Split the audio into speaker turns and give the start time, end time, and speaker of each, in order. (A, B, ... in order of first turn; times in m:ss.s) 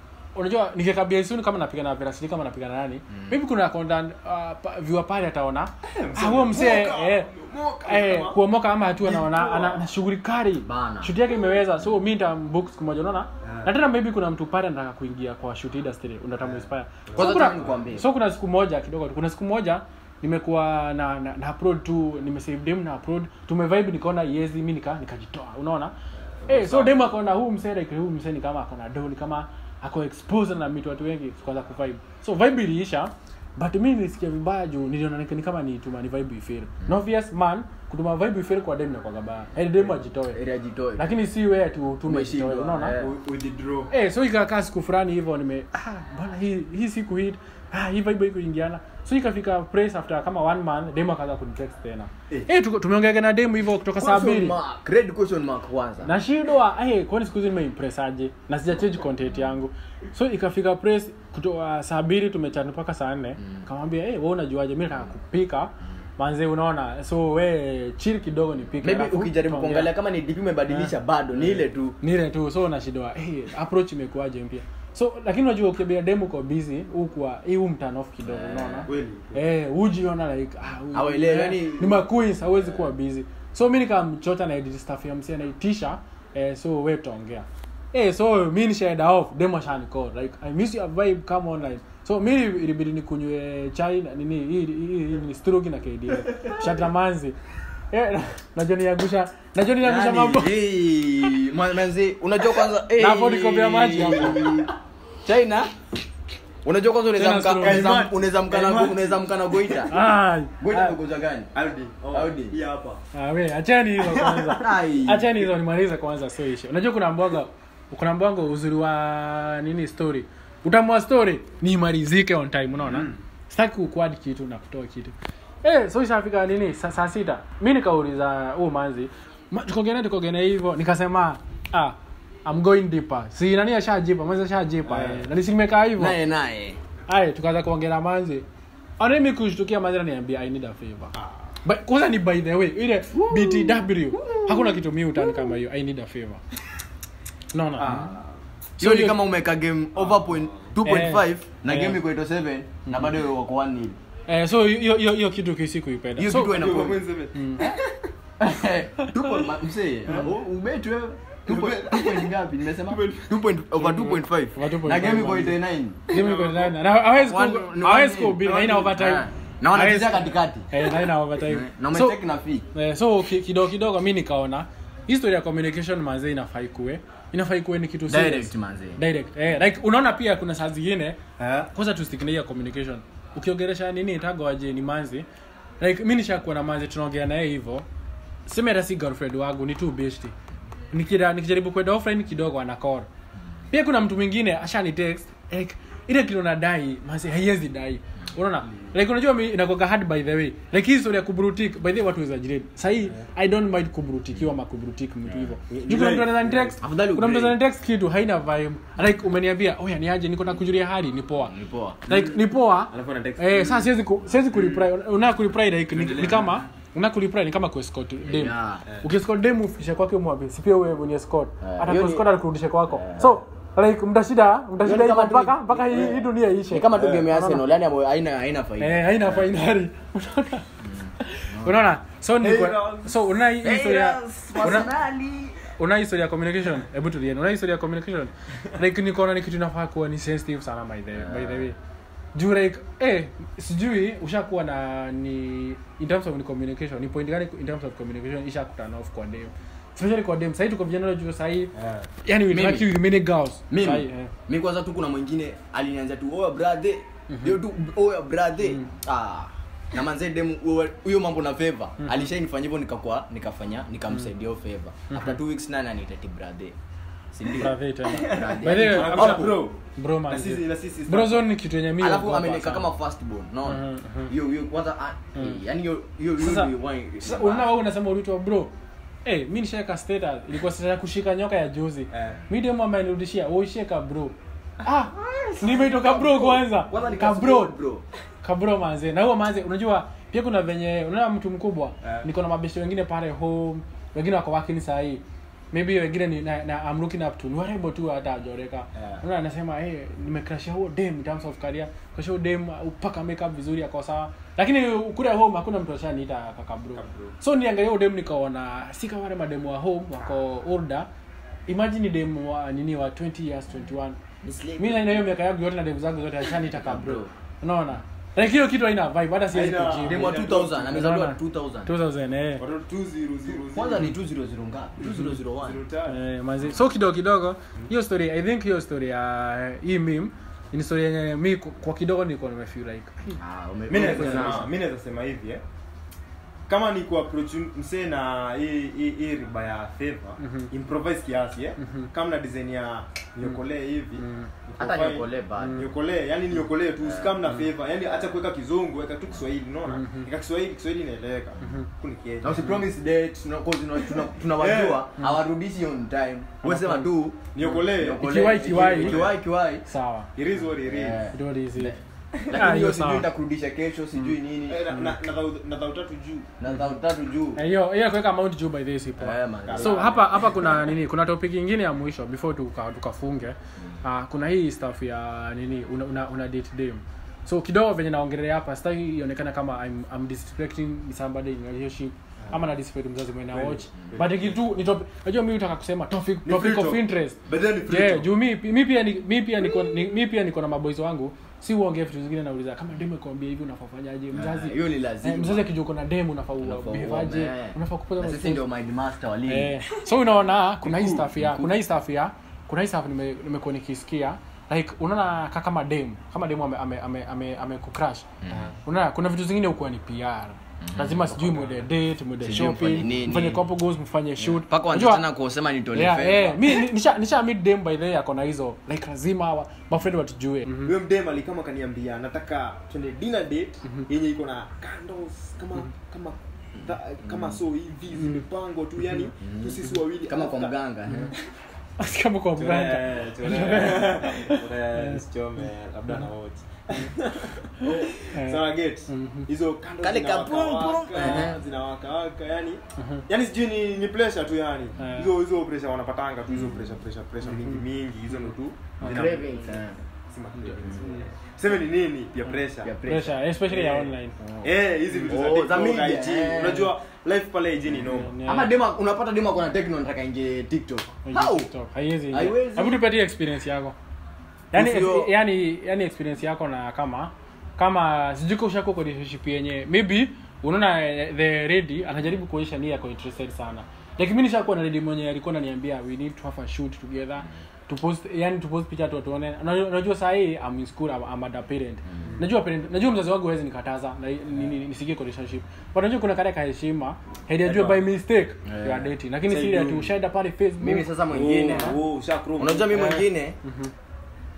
0:00.4-0:07.3 A
0:03.1-0:03.4 B
0:05.9-0:08.4 C
0:07.8-0:25.9 A
0:09.0-0:09.9 C
0:10.6-0:11.2 B
0:13.4-0:13.7 C
0:17.1-0:17.8 C
0:17.2-0:18.1 B
0:26.4-0:27.0 C
0:26.5-0:40.4 A
0:40.3-0:41.2 B
0:41.0-0:43.0 A
0:42.0-0:43.2 B
0:43.0-0:43.9 C
0:43.9-0:54.6 A
0:54.0-0:56.2 B
0:56.0-1:09.9 A
1:08.8-1:12.0 B
1:12.0-1:37.4 A
1:18.2-1:18.9 B
1:18.9-1:19.4 C
1:20.9-1:22.0 B
1:37.9-1:40.6 A
1:39.8-1:45.7 B
1:43.0-1:44.5 A
1:44.0-1:44.7 C
1:46.6-1:50.0 B
1:47.2-1:48.0 A
1:47.6-1:49.8 C
1:49.9-1:51.0 A
1:50.6-1:51.5 B
1:51.6-1:53.0 C
1:52.1-1:52.6 B
1:53.1-2:16.2 A
1:54.0-1:54.6 C
1:54.6-1:55.4 B
2:02.9-2:03.2 C
2:14.9-2:15.2 C
2:16.0-2:16.8 B
2:17.1-2:18.5 A
2:19.0-2:26.4 A
2:23.2-2:24.8 B
2:27.5-2:28.1 A
2:27.8-2:28.4 C
2:27.9-2:28.1 B
2:28.8-2:29.2 A
2:28.8-2:34.0 B
2:30.0-2:30.7 C
2:30.8-2:32.0 A
2:32.9-2:33.1 A
2:34.3-2:36.6 A
2:36.2-2:37.0 B
2:36.4-2:38.1 C
2:37.3-2:37.7 A
2:38.4-2:46.2 B
2:41.5-2:43.4 C
2:43.8-2:45.6 A
2:46.1-2:46.8 C
2:46.1-2:52.2 A
2:47.1-2:50.9 B
2:51.4-2:52.7 B
2:52.7-3:01.2 A
2:58.1-2:59.0 B
3:01.4-3:01.7 C
3:01.7-3:05.3 A
3:05.8-3:07.9 A
3:08.5-3:10.4 A
3:10.9-3:13.1 A
3:13.7-3:31.5 A
3:25.7-3:26.8 C
3:26.8-3:27.6 B
3:31.4-3:32.0 B
3:32.1-3:47.6 A
3:32.1-3:32.4 C
3:32.9-3:33.9 C
3:34.5-3:34.9 C
3:35.9-3:36.6 C
3:38.2-3:38.8 B
3:41.6-3:42.3 B
3:42.9-3:43.4 B
3:44.8-3:49.5 B
3:47.0-3:47.2 C
3:48.8-3:50.7 A
3:50.8-3:51.8 B
3:51.2-3:54.9 A
3:52.4-3:53.3 C
3:53.6-3:55.8 B
3:55.8-4:01.8 A
4:01.2-4:01.7 B
4:02.3-4:11.7 A
4:11.8-4:12.1 C
4:12.2-4:14.3 A
4:12.5-4:13.0 B
4:13.7-4:26.8 B
4:17.3-4:17.6 A
4:25.1-4:25.4 A
4:27.3-4:29.6 B
4:27.5-4:32.9 A
4:28.1-4:31.5 C
4:32.0-4:37.7 B
4:33.7-4:34.3 A
4:35.4-4:35.6 A
4:36.4-4:38.7 A
4:39.2-4:47.8 A
4:42.1-4:42.4 C
4:45.2-4:48.0 B
4:48.4-5:11.1 A
4:59.0-4:59.2 C
5:07.0-5:07.4 C
5:11.7-5:14.2 A
5:14.4-5:15.3 B
5:14.8-5:22.6 A
5:16.6-5:17.3 B
5:19.5-5:21.0 C
5:20.0-5:21.9 B
5:22.6-5:24.1 C
5:23.5-5:25.8 B
5:25.0-5:26.2 C
5:26.1-5:33.4 A
5:33.4-5:34.7 B
5:33.9-5:35.6 C
5:33.9-5:34.7 A
5:36.7-5:52.8 C
5:40.4-5:40.7 A
5:41.8-5:42.1 A
5:44.2-5:44.5 A
5:44.8-5:45.9 B
5:45.6-5:45.9 A
5:47.0-5:47.5 B
5:49.9-5:50.3 A
5:52.4-5:59.9 B
5:54.6-5:55.0 C
5:56.6-5:57.1 A
5:57.5-5:59.4 C
5:58.2-5:59.2 A
5:59.9-6:00.3 A
6:00.4-6:01.2 C
6:00.8-6:04.8 B
6:01.3-6:02.0 A
6:02.5-6:03.3 A
6:04.7-6:06.5 C
6:06.6-6:07.6 B
6:07.6-6:38.6 A
6:09.2-6:10.6 B
6:09.7-6:10.4 C
6:23.5-6:24.5 C
6:26.5-6:28.3 C
6:34.3-6:35.7 B
6:36.6-6:39.8 B
6:39.5-6:48.3 A
6:40.8-6:41.7 B
6:48.4-6:48.8 B
6:48.5-6:48.8 C
6:48.8-6:55.3 A
6:50.8-6:51.7 B
6:52.4-6:53.6 B
6:54.4-6:56.8 B
6:55.9-7:00.9 A
7:00.8-7:10.8 C
7:08.2-7:08.4 A
7:09.4-7:11.3 B
7:12.0-7:15.2 A
7:12.6-7:32.9 C
7:17.8-7:19.5 A
7:20.0-7:21.6 B
7:23.0-7:23.2 A
7:25.0-7:25.3 A
7:26.5-7:26.9 B
7:29.0-7:30.0 B
7:30.7-7:31.2 A
7:32.8-7:33.4 B
7:33.0-7:34.4 A
7:33.7-7:38.3 C
7:34.4-7:34.7 B
7:35.2-7:36.9 B
7:38.0-7:38.7 A
7:38.4-7:41.7 B
7:41.2-7:44.0 A
7:42.3-7:43.0 B
7:44.7-8:11.1 A
7:44.7-7:45.3 B
8:07.6-8:08.1 C
8:08.7-8:09.1 B
8:09.4-8:10.2 C
8:10.8-8:12.0 B
8:11.3-8:13.2 C
8:12.6-8:13.6 B
8:13.0-8:13.9 A